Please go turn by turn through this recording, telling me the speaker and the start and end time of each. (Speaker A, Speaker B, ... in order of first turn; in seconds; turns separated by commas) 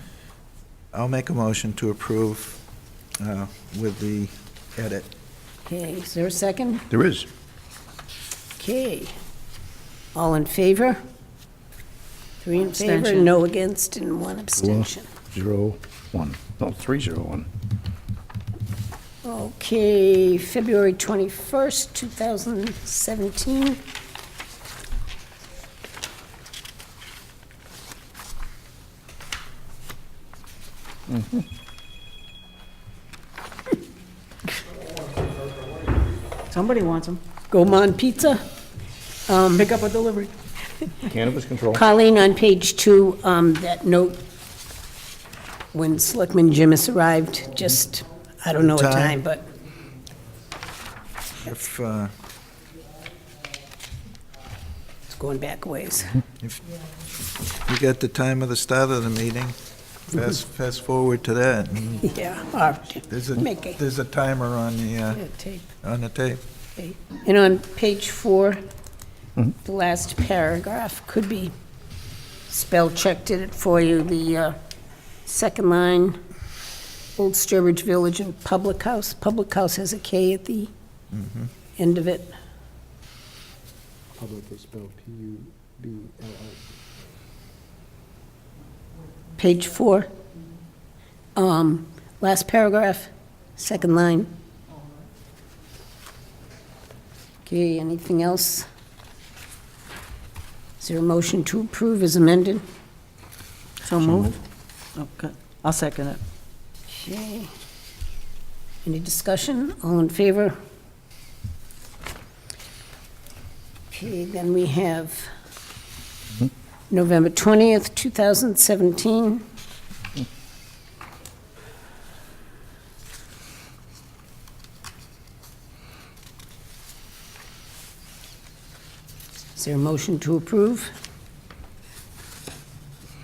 Speaker A: 0.9-2.6, Speaker A: 3.2-5.1, Speaker B: 5.7-6.8, Speaker C: 6.9-7.3, Speaker B: 8.6-9.1, Speaker B: 10.1-11.0, Speaker B: 12.4-15.1, Speaker D: 12.5-13.3, Speaker C: 14.6-17.5, Speaker B: 19.2-23.8, Speaker C: 31.1-31.4, Speaker D: 36.5-37.2, Speaker B: 37.5-38.4, Speaker B: 39.2-39.7, Speaker D: 39.5-40.3, Speaker C: 41.0-41.8, Speaker B: 41.7-44.2, Speaker B: 45.7-49.4, Speaker A: 48.7-49.2, Speaker A: 51.4-52.1, Speaker B: 55.1-56.2, Speaker A: 57.6-59.5, Speaker A: 60.1-62.0, Speaker B: 62.0-63.8, Speaker A: 63.1-65.2, Speaker B: 65.1-65.7, Speaker A: 65.8-66.4, Speaker B: 66.8-68.6, Speaker B: 69.5-71.5, Speaker B: 72.5-74.5, Speaker B: 75.2-76.2, Speaker B: 77.2-80.7, Speaker A: 81.1-81.4, Speaker B: 81.8-82.3, Speaker E: 84.2-86.7, Speaker B: 89.4-90.1, Speaker B: 91.3-94.3, Speaker B: 97.4-98.7, Speaker B: 100.8-102.6, Speaker D: 103.8-104.4, Speaker D: 104.9-106.2, Speaker B: 106.9-107.5, Speaker B: 108.8-110.5, Speaker B: 113.9-115.3, Speaker B: 116.9-119.4, Speaker B: 129.5-130.9